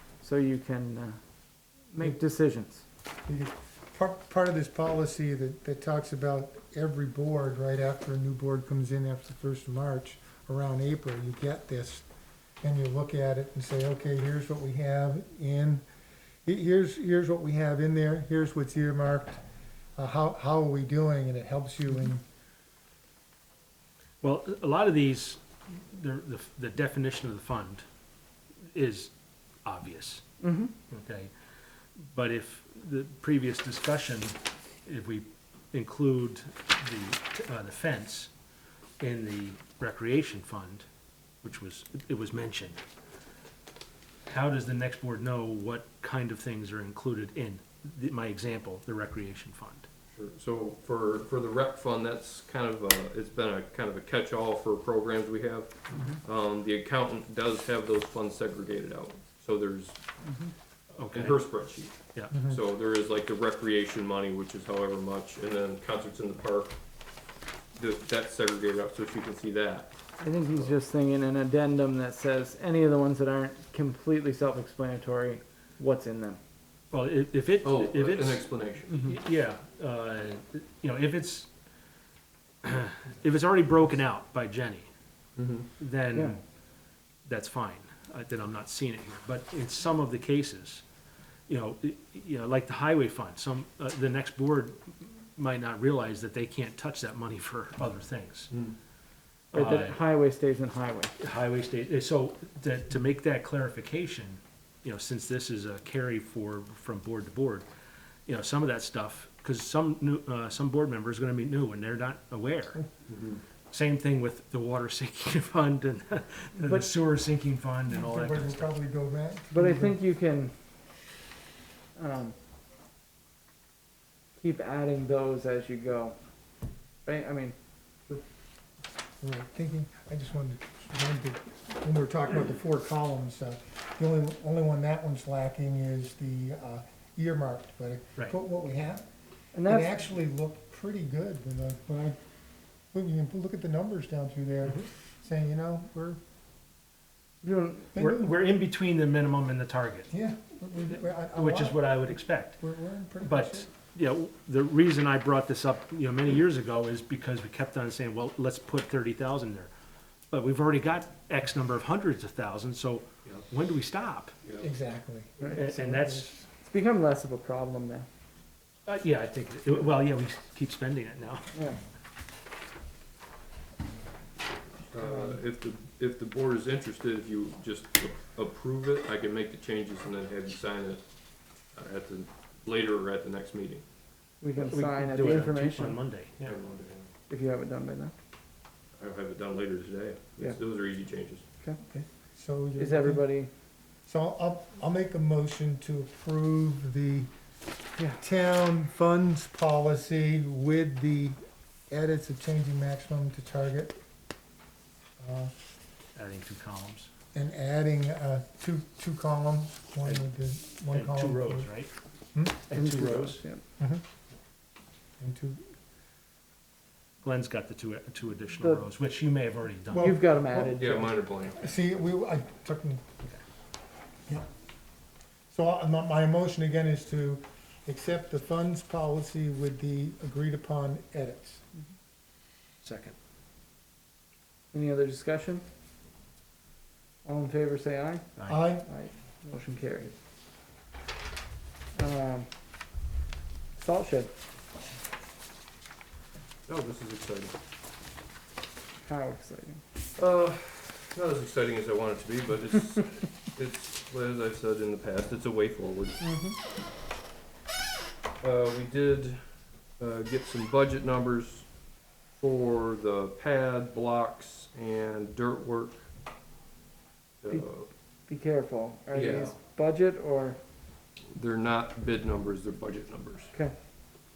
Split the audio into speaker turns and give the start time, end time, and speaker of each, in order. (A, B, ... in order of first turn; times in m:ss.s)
0:00.2-0:01.2 A
0:01.9-0:02.8 A
0:03.3-0:12.0 B
0:12.6-0:15.8 B
0:16.4-0:19.4 B
0:20.0-0:22.2 B
0:24.2-0:27.8 C
0:28.7-0:29.1 C
0:29.6-0:30.2 C
0:30.4-0:30.7 A
0:30.9-0:31.3 C
0:32.0-0:38.3 C
0:39.0-0:40.8 C
0:41.4-0:42.8 C
0:44.3-0:49.8 C
0:50.1-1:00.0 D
1:01.0-1:01.4 C
1:01.1-1:06.8 D
1:02.3-1:02.6 B
1:07.8-1:10.0 D
1:10.2-1:16.4 A
1:16.9-1:21.5 C
1:17.6-1:19.1 D
1:22.6-1:24.9 C
1:25.4-1:25.7 D
1:25.8-1:26.4 C
1:27.2-1:30.8 C
1:31.5-1:38.5 C
1:39.5-1:40.0 C
1:39.5-1:41.1 A
1:41.2-1:47.6 C
1:48.3-1:52.8 C
1:53.1-1:53.4 D
1:53.7-1:58.7 C
1:56.6-1:56.9 A
1:57.9-1:59.9 B
1:59.5-2:00.5 A
2:02.0-2:02.3 A
2:04.4-2:06.2 A
2:07.0-2:07.5 A
2:09.2-2:19.0 B
2:19.5-2:19.9 A
2:19.6-2:22.2 B
2:22.9-2:26.2 B
2:27.4-2:27.9 A
2:27.9-2:28.4 B
2:28.0-2:30.1 C
2:30.1-2:33.7 B
2:31.3-2:32.6 C
2:33.2-2:39.7 C
2:40.3-2:44.4 C
2:44.6-2:46.4 B
2:45.5-2:46.3 C
2:46.6-2:48.1 A
2:48.9-2:51.5 C
2:51.5-2:51.8 A
2:54.9-3:01.0 D
2:55.0-2:55.4 A
3:01.7-3:03.8 D
3:04.4-3:06.0 A
3:04.6-3:06.6 C
3:06.4-3:07.1 D
3:07.3-3:08.1 A
3:09.0-3:11.4 D
3:11.8-3:13.2 B
3:12.8-3:13.5 A
3:14.1-3:17.3 B
3:18.2-3:21.4 B
3:21.9-3:24.0 B
3:25.2-3:25.5 B
3:26.1-3:27.1 C
3:27.3-3:31.7 B
3:30.0-3:30.3 C
3:30.9-3:31.9 C
3:32.3-3:32.6 B
3:32.7-3:33.4 C
3:32.7-3:33.6 A
3:35.2-3:35.6 B
3:37.2-3:40.2 C
3:39.9-3:43.0 B
3:39.9-3:41.1 A
3:40.8-3:41.8 D
3:45.5-3:51.6 B
3:52.8-3:53.1 C
3:54.7-3:55.6 A
3:57.2-3:58.3 A
3:58.5-3:58.9 B
3:58.9-4:00.1 A
4:01.9-4:02.5 A
4:03.8-4:04.3 A
4:06.7-4:07.5 D
4:09.0-4:09.8 A
4:10.2-4:16.2 D
4:16.2-4:16.6 A
4:18.4-4:19.4 D
4:20.0-4:21.7 D
4:22.4-4:26.1 D
4:27.4-4:27.9 D
4:28.3-4:30.6 A
4:29.1-4:29.5 D
4:31.3-4:33.5 D